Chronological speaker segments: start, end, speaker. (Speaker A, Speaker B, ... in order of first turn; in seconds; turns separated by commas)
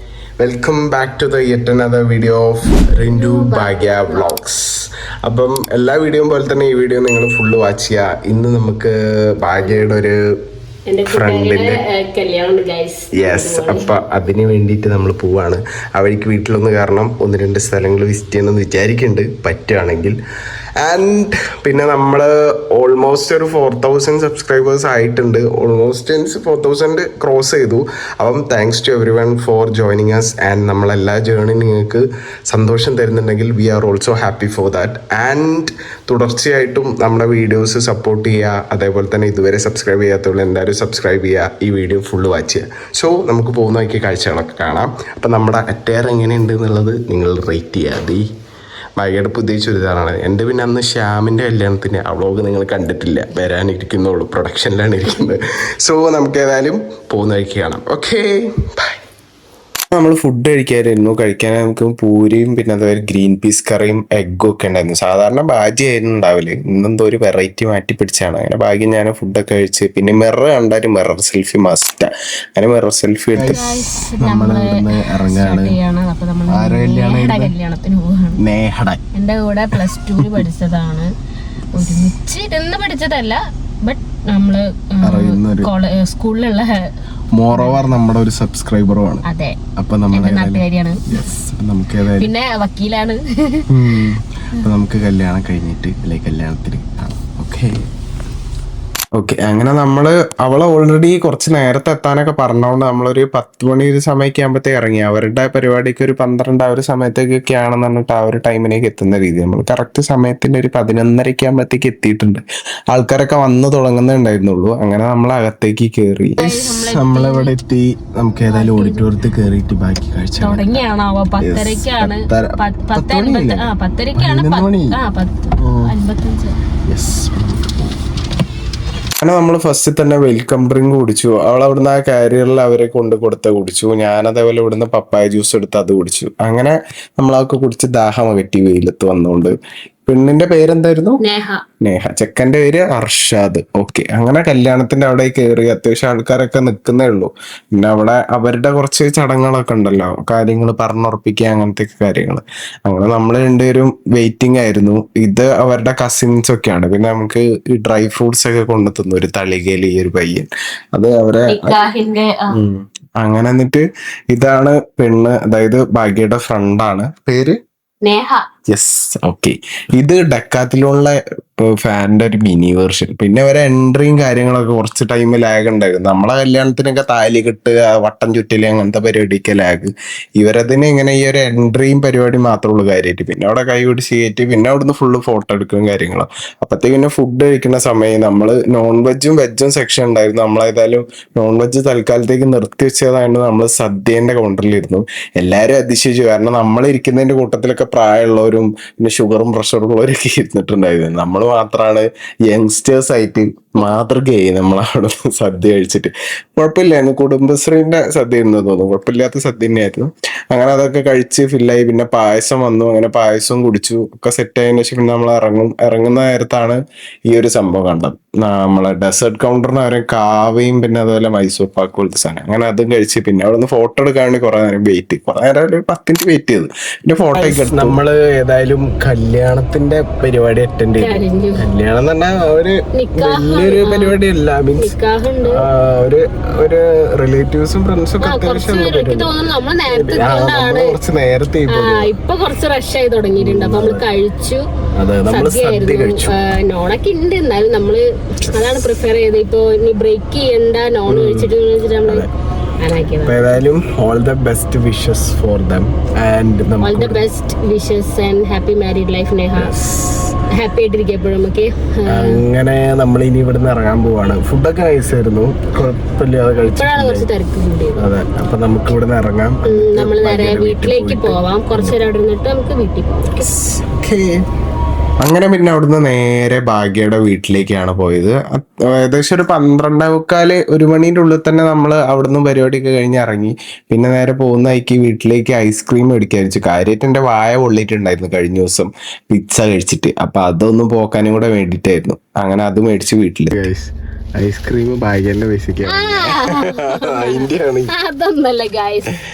Speaker A: 0.4-10.2, Speaker B: 2.9-4.4, Speaker B: 9.6-9.9, Speaker B: 10.9-13.9, Speaker A: 11.1-11.8, Speaker A: 13.1-20.2, Speaker A: 20.8-48.2, Speaker A: 49.0-59.0, Speaker A: 60.0-75.8, Speaker B: 73.4-78.4, Speaker A: 76.5-77.5, Speaker A: 78.4-79.0, Speaker B: 79.2-81.1, Speaker A: 79.7-80.4, Speaker B: 81.7-86.9, Speaker A: 81.8-82.1, Speaker A: 85.0-85.7, Speaker A: 87.4-89.2, Speaker B: 87.5-87.9, Speaker B: 89.3-89.6, Speaker A: 89.8-92.3, Speaker B: 90.1-91.3, Speaker B: 92.2-94.0, Speaker A: 93.7-97.9, Speaker A: 99.2-120.8, Speaker B: 116.4-117.6, Speaker B: 118.5-119.2, Speaker B: 120.4-126.6, Speaker A: 121.4-125.0, Speaker A: 125.6-125.9, Speaker A: 126.9-128.0, Speaker A: 129.2-139.5, Speaker A: 140.1-141.2, Speaker B: 141.2-141.6, Speaker A: 141.8-161.8, Speaker B: 161.5-162.6, Speaker A: 162.5-167.6, Speaker B: 168.0-168.5, Speaker A: 168.7-235.0, Speaker B: 227.3-228.0, Speaker B: 231.0-231.6, Speaker B: 232.9-234.2, Speaker B: 234.8-235.6, Speaker A: 235.5-239.3, Speaker B: 238.2-241.0, Speaker A: 239.9-242.1, Speaker B: 241.7-244.7, Speaker A: 243.4-244.1, Speaker A: 244.9-246.4, Speaker B: 245.3-252.3, Speaker A: 248.4-248.9, Speaker A: 251.1-251.5, Speaker A: 252.1-252.3, Speaker B: 252.8-253.6, Speaker A: 253.2-257.2, Speaker B: 256.8-259.8, Speaker A: 259.6-260.4, Speaker B: 260.5-262.4, Speaker A: 262.1-267.3, Speaker B: 266.8-268.0, Speaker A: 268.0-272.0, Speaker B: 269.6-273.5, Speaker A: 273.3-274.4, Speaker A: 275.2-297.9, Speaker B: 295.9-299.1